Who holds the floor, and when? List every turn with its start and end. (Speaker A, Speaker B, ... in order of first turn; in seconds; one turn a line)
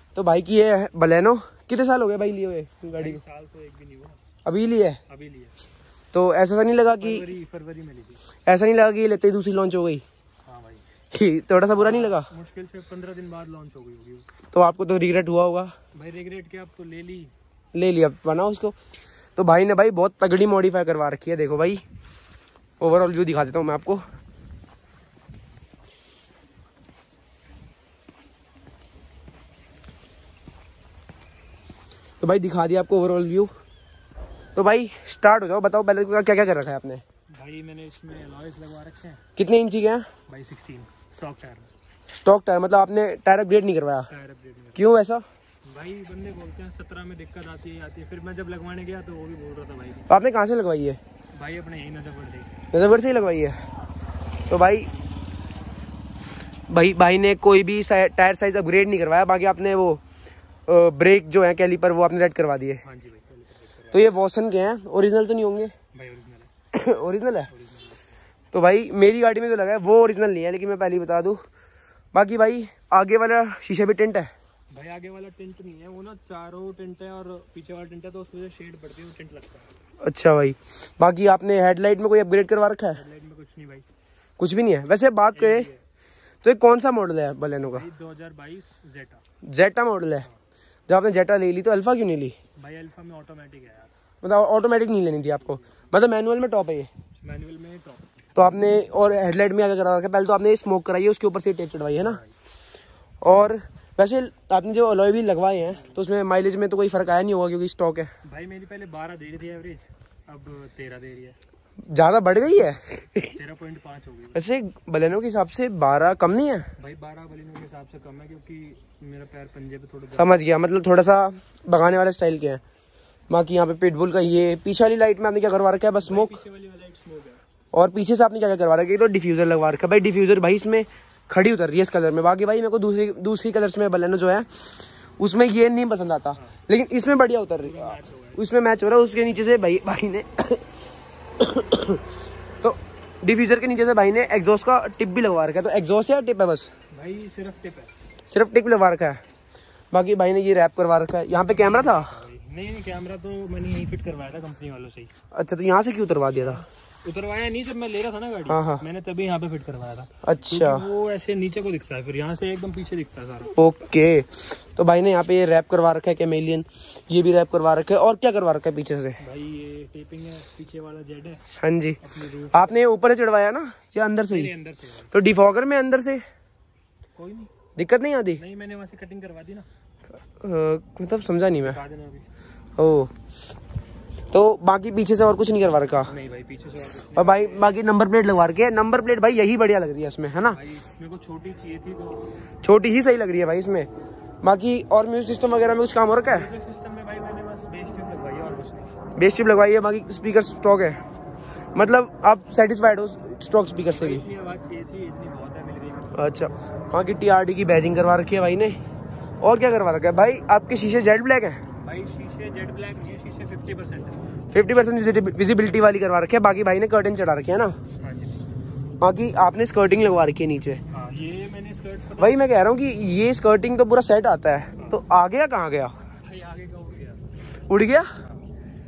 Speaker A: 0.1-3.2
Speaker B: 2.9-4.2
Speaker A: 4.5-5.0
Speaker B: 5.1-5.5
Speaker A: 6.1-7.3
Speaker B: 7.0-8.2
Speaker A: 8.5-10.0
Speaker B: 10.5-10.8
Speaker A: 11.1-12.3
Speaker B: 11.8-14.3
Speaker A: 14.5-15.7
Speaker B: 15.9-17.3
Speaker A: 17.7-18.8
Speaker A: 19.4-21.8
Speaker A: 22.8-24.0
Speaker A: 32.2-33.5
Speaker A: 34.5-37.0
Speaker B: 37.3-39.2
Speaker A: 39.4-40.1
Speaker B: 40.3-41.7
Speaker A: 42.1-44.1
Speaker B: 44.1-44.9
Speaker A: 44.8-45.2
Speaker B: 45.7-50.1
Speaker A: 50.1-51.0
Speaker B: 51.4-52.5
Speaker A: 52.7-53.6
Speaker A: 54.5-54.9
Speaker A: 56.7-60.0
Speaker A: 60.7-62.8
Speaker B: 62.8-64.0
Speaker A: 63.9-65.7
Speaker B: 65.9-66.5
Speaker A: 66.7-67.5
Speaker B: 67.5-68.0
Speaker A: 68.5-71.4
Speaker A: 72.1-74.3
Speaker B: 74.7-79.7
Speaker A: 80.0-83.0
Speaker B: 83.0-83.9
Speaker A: 84.4-85.7
Speaker B: 85.3-85.8
Speaker A: 86.4-87.9
Speaker B: 87.6-89.2
Speaker A: 89.4-90.3
Speaker A: 90.9-92.3
Speaker B: 92.6-93.9
Speaker A: 94.2-96.9
Speaker B: 95.5-95.9
Speaker B: 97.2-98.0
Speaker A: 98.3-102.2
Speaker B: 102.0-102.3
Speaker A: 103.2-108.1
Speaker B: 105.7-106.0
Speaker B: 108.2-111.4
Speaker A: 111.9-113.4
Speaker B: 113.2-114.4
Speaker A: 114.3-116.7
Speaker B: 116.8-120.4
Speaker A: 120.1-122.6
Speaker A: 123.3-126.4
Speaker B: 126.0-127.4
Speaker A: 127.7-140.7
Speaker B: 137.6-138.4
Speaker A: 141.4-142.1
Speaker A: 142.6-146.7
Speaker B: 146.9-147.9
Speaker A: 148.3-149.2
Speaker A: 149.9-152.1
Speaker B: 151.3-155.1
Speaker A: 155.3-156.6
Speaker B: 156.3-163.5
Speaker A: 158.5-158.8
Speaker A: 160.2-160.8
Speaker A: 163.5-169.2
Speaker B: 169.2-171.4
Speaker A: 171.6-172.0
Speaker B: 172.0-172.8
Speaker A: 172.5-174.5
Speaker B: 174.3-175.1
Speaker A: 175.1-176.2
Speaker B: 177.2-177.5
Speaker A: 177.8-178.4
Speaker B: 178.4-179.7
Speaker A: 180.4-181.8
Speaker B: 181.6-182.3
Speaker A: 182.8-183.1
Speaker A: 184.3-186.1
Speaker B: 186.1-187.7
Speaker A: 187.1-190.6
Speaker B: 190.5-192.3
Speaker A: 192.6-193.9
Speaker A: 194.4-196.5
Speaker B: 196.3-198.9
Speaker A: 199.2-201.0
Speaker A: 201.8-204.3
Speaker B: 203.8-206.3
Speaker A: 206.2-208.8
Speaker A: 209.4-211.6
Speaker B: 211.8-214.2
Speaker A: 214.5-217.8
Speaker B: 218.0-218.5
Speaker A: 219.0-220.8
Speaker B: 220.9-222.5
Speaker A: 222.2-226.0
Speaker B: 226.3-227.4
Speaker A: 227.7-228.1